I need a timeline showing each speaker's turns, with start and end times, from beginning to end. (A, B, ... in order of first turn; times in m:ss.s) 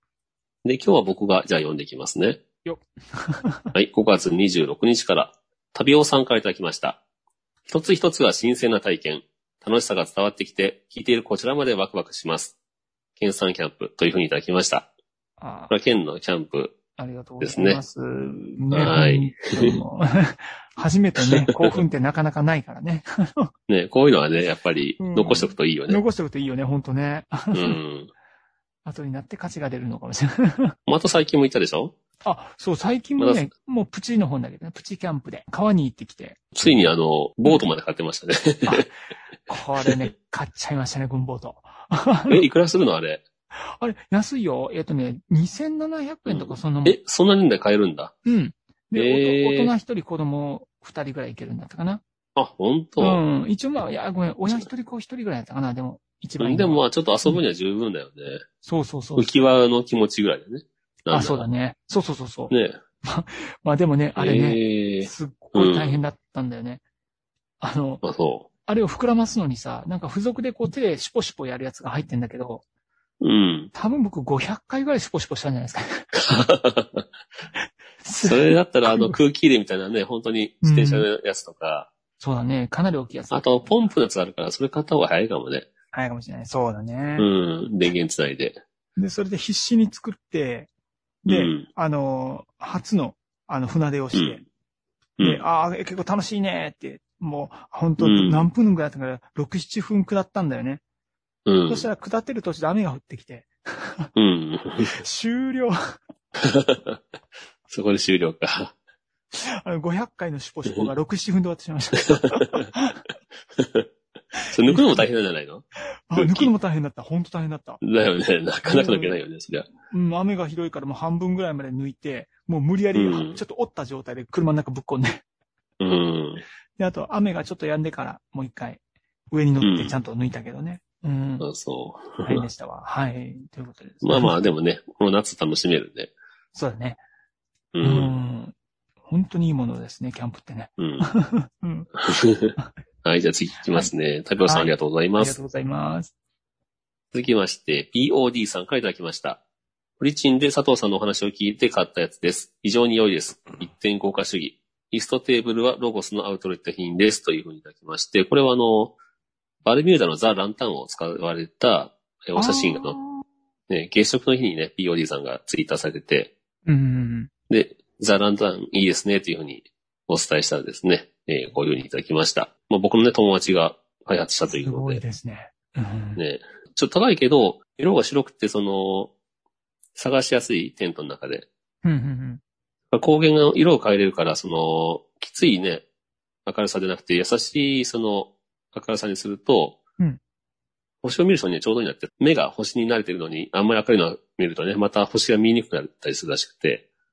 0:00.6-0:02.4 A
0:02.6-0:03.7 B
0:03.8-0:07.0 A
0:07.7-0:12.6 A
0:13.2-0:14.9 A
0:15.4-0:15.7 B
0:15.7-0:16.8 A
0:17.0-0:23.5 B
0:17.4-0:17.8 A
0:18.7-0:19.8 A
0:21.3-0:21.8 A
0:23.7-0:26.0 A
0:25.0-0:27.8 B
0:27.5-0:28.1 A
0:28.9-0:30.8 B
0:30.9-0:32.0 A
0:32.2-0:36.9 B
0:33.2-0:33.4 A
0:36.6-0:38.9 A
0:39.5-0:42.4 B
0:42.3-0:43.2 A
0:43.8-0:47.0 B
0:46.3-0:48.2 A
0:48.3-0:52.0 B
0:49.0-0:49.7 A
0:52.4-0:53.2 A
0:53.0-0:57.4 B
0:56.4-0:58.4 A
0:58.6-0:59.3 B
0:59.2-1:01.5 A
1:01.1-1:06.8 B
1:02.5-1:02.8 A
1:04.2-1:06.0 A
1:07.6-1:08.0 B
1:08.0-1:08.5 A
1:08.6-1:12.6 B
1:13.2-1:13.7 A
1:13.7-1:16.1 B
1:16.1-1:17.0 A
1:18.0-1:19.2 B
1:18.2-1:21.9 A
1:20.6-1:21.1 B
1:22.2-1:23.4 B
1:23.3-1:25.7 A
1:25.9-1:27.3 B
1:27.2-1:28.6 A
1:29.0-1:30.7 B
1:31.3-1:34.4 B
1:31.3-1:31.7 A
1:34.1-1:34.4 A
1:35.2-1:40.8 B
1:38.0-1:38.5 A
1:41.5-1:41.9 A
1:41.7-1:44.1 B
1:44.2-1:45.0 A
1:44.8-1:46.0 B
1:46.4-1:47.0 A
1:47.7-1:48.7 A
1:49.3-1:53.0 B
1:52.1-1:52.6 A
1:53.6-1:53.9 A
1:54.4-1:55.0 B
1:54.5-1:55.6 A
1:56.1-1:57.8 B
1:56.2-1:56.5 A
1:57.8-1:59.7 A
1:58.6-1:59.2 B
1:59.9-2:05.2 B
2:03.0-2:03.4 A
2:05.8-2:06.4 A
2:06.8-2:11.5 B
2:09.6-2:10.0 A
2:11.4-2:12.4 A
2:12.3-2:14.5 B
2:14.0-2:16.1 A
2:16.6-2:17.0 B
2:17.7-2:18.2 A
2:17.8-2:21.9 B
2:20.8-2:21.1 A
2:22.0-2:25.4 A
2:24.4-2:26.1 B
2:27.1-2:29.4 A
2:30.0-2:39.0 A
2:39.6-2:43.0 A
2:42.4-2:43.2 B
2:43.7-2:46.3 A
2:46.7-2:47.3 B
2:47.5-2:55.0 A
2:54.5-2:56.2 B
2:56.2-2:59.1 A
3:00.0-3:01.5 A
3:01.8-3:02.4 B
3:02.9-3:05.8 A
3:06.5-3:09.8 A
3:11.0-3:16.8 A